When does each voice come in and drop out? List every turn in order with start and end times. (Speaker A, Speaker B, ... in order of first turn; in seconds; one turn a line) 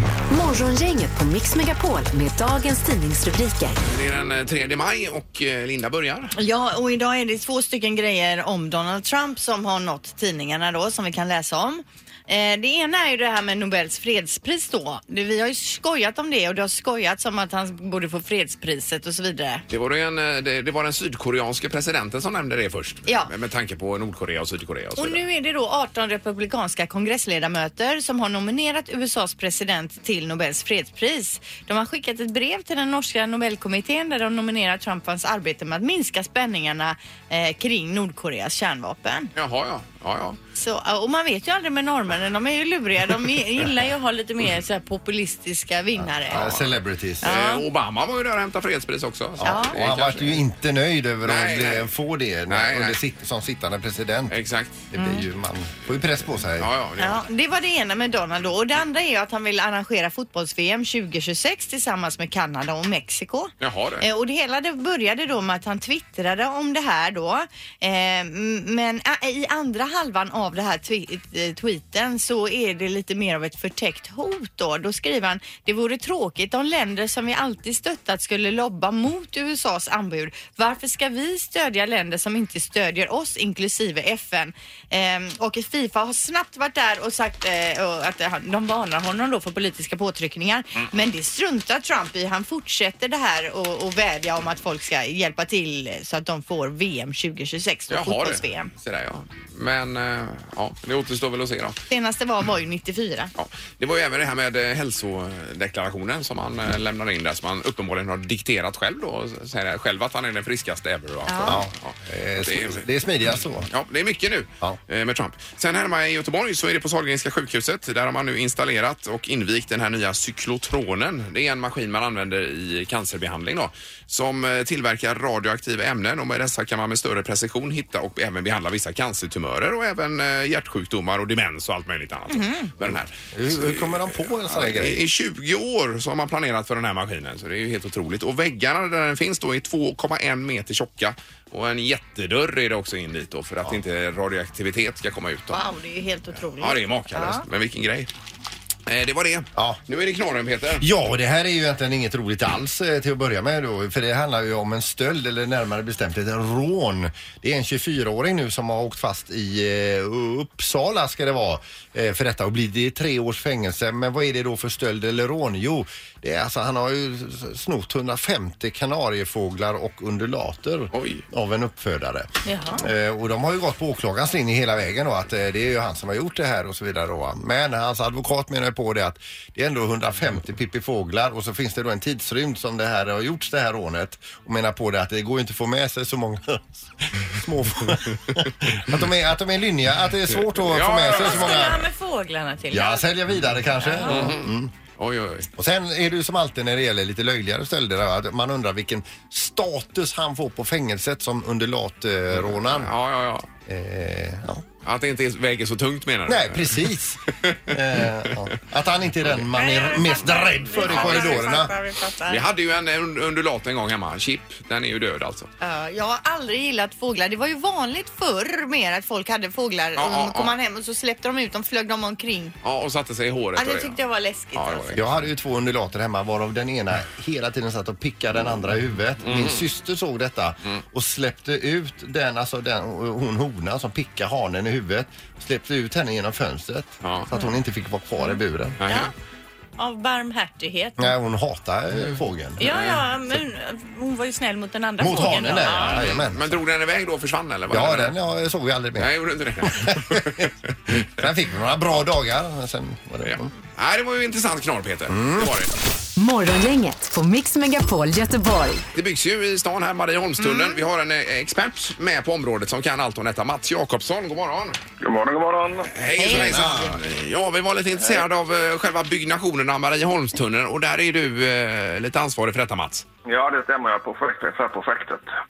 Speaker A: 0.3-3.8
Speaker B: 3.9-6.3
Speaker C: 6.4-19.6
Speaker B: 19.7-25.2
Speaker C: 25.0-39.3
Speaker B: 39.4-40.4
Speaker C: 40.5-46.5
Speaker D: 46.0-47.4
Speaker B: 46.3-50.4
Speaker C: 47.2-47.6
Speaker D: 49.4-54.4
Speaker C: 49.4-49.8
Speaker B: 51.2-51.9
Speaker B: 52.5-53.0
Speaker B: 54.3-54.8
Speaker D: 54.9-56.7
Speaker C: 55.0-55.3
Speaker B: 56.6-57.3
Speaker C: 57.0-98.7
Speaker B: 63.6-64.1
Speaker B: 97.9-101.8
Speaker C: 101.9-103.3
Speaker B: 103.4-112.9
Speaker C: 111.3-111.6
Speaker D: 111.4-113.7
Speaker B: 113.7-145.6
Speaker C: 132.3-132.7
Speaker D: 133.3-135.0
Speaker C: 145.5-147.4
Speaker B: 146.6-148.1
Speaker B: 148.9-150.9
Speaker D: 150.8-191.9
Speaker B: 170.9-171.2
Speaker C: 172.5-172.8
Speaker B: 190.3-191.7
Speaker C: 191.1-193.1
Speaker D: 192.7-194.7
Speaker C: 193.8-194.3
Speaker B: 194.1-195.5
Speaker D: 195.6-202.9
Speaker B: 202.3-203.5
Speaker D: 203.7-204.7
Speaker B: 204.8-208.5
Speaker D: 206.3-211.7
Speaker C: 209.5-212.4
Speaker B: 210.8-211.5
Speaker B: 212.3-215.5
Speaker C: 215.6-222.6
Speaker B: 220.0-220.5
Speaker B: 222.6-224.0
Speaker C: 223.6-225.0
Speaker B: 224.5-225.2
Speaker D: 225.0-238.8
Speaker B: 229.2-229.7
Speaker B: 237.0-237.3
Speaker C: 238.2-239.1
Speaker B: 238.8-239.1
Speaker C: 239.8-241.1
Speaker D: 241.0-242.6
Speaker C: 242.6-246.0
Speaker B: 242.7-243.0
Speaker D: 245.0-246.5
Speaker B: 245.8-248.2
Speaker D: 247.7-253.5
Speaker B: 249.0-251.0
Speaker B: 253.2-255.7
Speaker D: 255.1-255.5
Speaker A: 256.2-258.8
Speaker B: 258.9-264.8
Speaker C: 260.4-260.8
Speaker E: 265.0-265.9
Speaker B: 265.9-273.1
Speaker C: 266.2-266.9
Speaker D: 266.2-267.0
Speaker E: 273.3-275.3